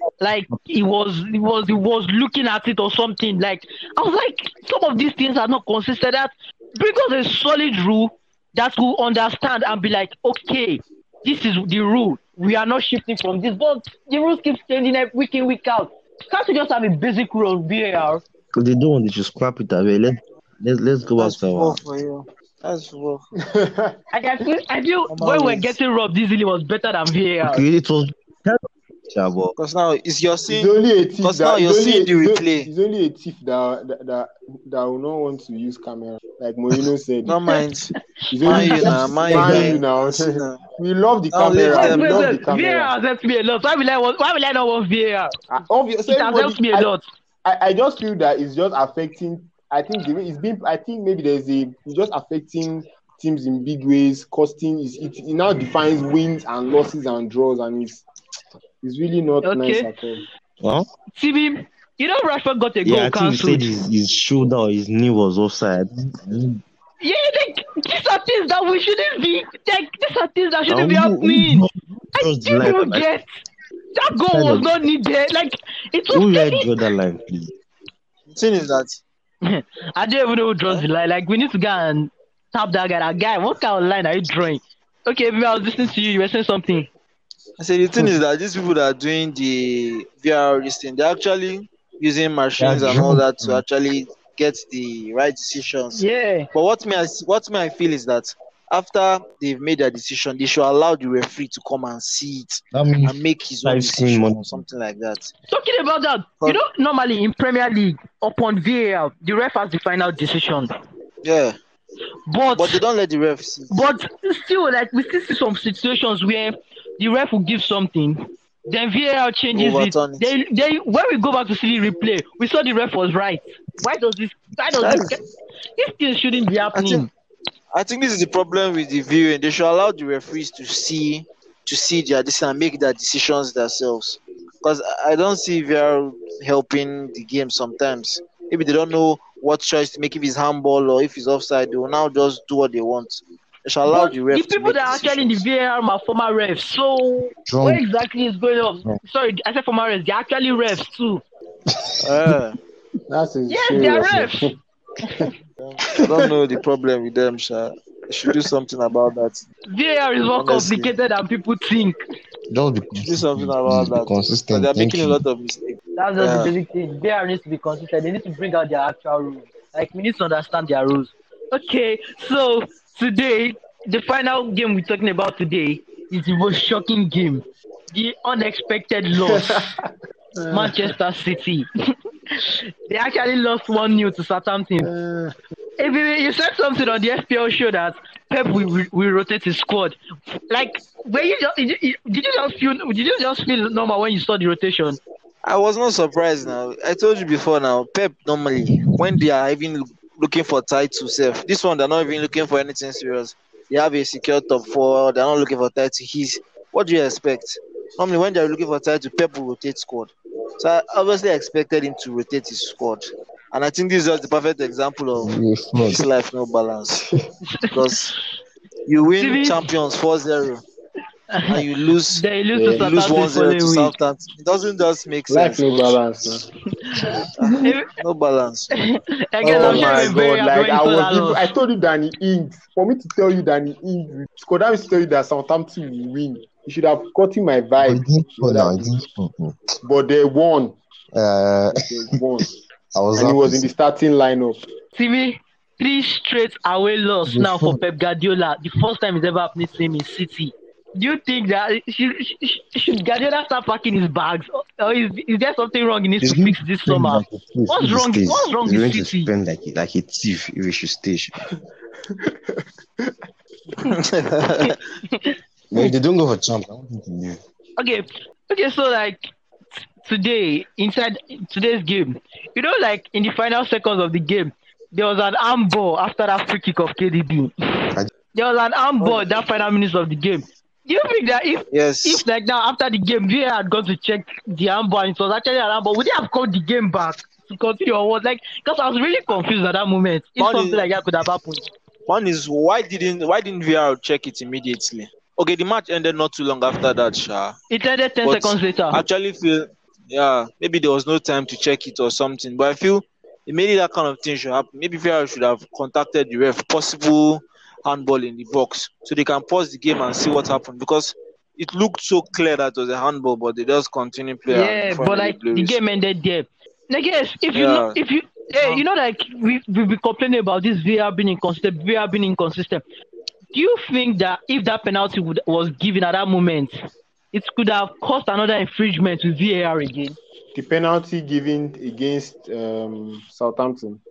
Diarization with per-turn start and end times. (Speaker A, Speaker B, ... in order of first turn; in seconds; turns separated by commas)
Speaker A: 0.2-18.2, Speaker B: 18.5-21.8, Speaker C: 21.2-23.3, Speaker D: 23.5-24.0, Speaker A: 24.1-27.6, Speaker C: 25.1-25.8, Speaker B: 27.4-29.5, Speaker C: 29.6-32.7, Speaker D: 30.5-37.4, Speaker C: 37.2-37.9, Speaker D: 38.3-42.9, Speaker A: 38.4-39.7, Speaker C: 38.4-40.6, Speaker C: 41.3-42.3, Speaker A: 41.5-45.3, Speaker D: 45.5-46.9, Speaker A: 46.1-47.0, Speaker D: 47.4-58.0, Speaker D: 58.8-60.2, Speaker A: 59.4-59.9, Speaker B: 60.6-60.9, Speaker A: 61.1-63.7, Speaker B: 62.8-66.6, Speaker A: 67.0-71.6, Speaker B: 70.7-73.0, Speaker A: 72.2-73.2, Speaker A: 73.9-76.7, Speaker B: 74.1-74.7, Speaker B: 76.1-77.5, Speaker C: 78.3-79.0, Speaker A: 79.4-86.9, Speaker C: 87.6-105.3, Speaker B: 92.6-93.6, Speaker A: 95.9-96.5, Speaker B: 102.7-104.6, Speaker A: 105.5-110.7, Speaker C: 111.2-111.5, Speaker A: 112.3-112.8, Speaker C: 112.5-113.7, Speaker A: 113.7-125.2, Speaker C: 119.5-120.3, Speaker C: 124.8-125.2, Speaker A: 125.8-127.1, Speaker C: 126.7-127.1, Speaker C: 127.7-145.4, Speaker A: 143.9-151.2, Speaker B: 147.5-147.8, Speaker C: 152.0-152.6, Speaker D: 153.1-154.5, Speaker A: 153.5-154.5, Speaker C: 155.6-159.4, Speaker A: 159.7-161.9, Speaker C: 160.4-160.9, Speaker B: 162.5-165.2, Speaker C: 163.0-166.5, Speaker A: 166.0-179.7, Speaker D: 179.1-180.9, Speaker A: 180.5-181.7, Speaker A: 182.3-184.9, Speaker D: 184.8-185.3, Speaker A: 185.8-189.9, Speaker A: 190.5-195.0, Speaker C: 195.4-217.1, Speaker B: 215.2-216.0, Speaker C: 217.7-218.1, Speaker C: 218.8-220.6, Speaker A: 219.2-219.6, Speaker A: 221.3-221.6, Speaker C: 221.5-226.0, Speaker A: 222.1-223.9, Speaker D: 222.5-222.8, Speaker D: 225.3-226.5, Speaker A: 226.9-227.9, Speaker D: 227.2-227.6, Speaker C: 227.4-228.8, Speaker A: 228.8-231.5, Speaker D: 229.4-239.0, Speaker C: 229.4-230.1, Speaker B: 237.8-239.6, Speaker D: 239.8-240.8, Speaker B: 241.1-241.8, Speaker D: 241.7-242.5, Speaker B: 242.4-243.7, Speaker D: 243.2-244.6, Speaker A: 244.9-259.3, Speaker B: 247.2-247.8, Speaker B: 256.2-261.4, Speaker D: 262.1-263.2, Speaker C: 263.9-264.8, Speaker A: 264.6-265.3, Speaker B: 265.7-267.4, Speaker A: 267.8-269.3, Speaker A: 270.0-277.5, Speaker A: 278.3-291.7, Speaker C: 279.0-279.4, Speaker C: 281.7-282.2, Speaker C: 290.4-290.9, Speaker C: 292.1-297.6, Speaker A: 297.7-299.0, Speaker C: 298.2-315.8, Speaker A: 314.5-322.8, Speaker C: 317.5-318.0, Speaker A: 323.5-326.7, Speaker A: 327.3-330.2, Speaker D: 330.5-334.0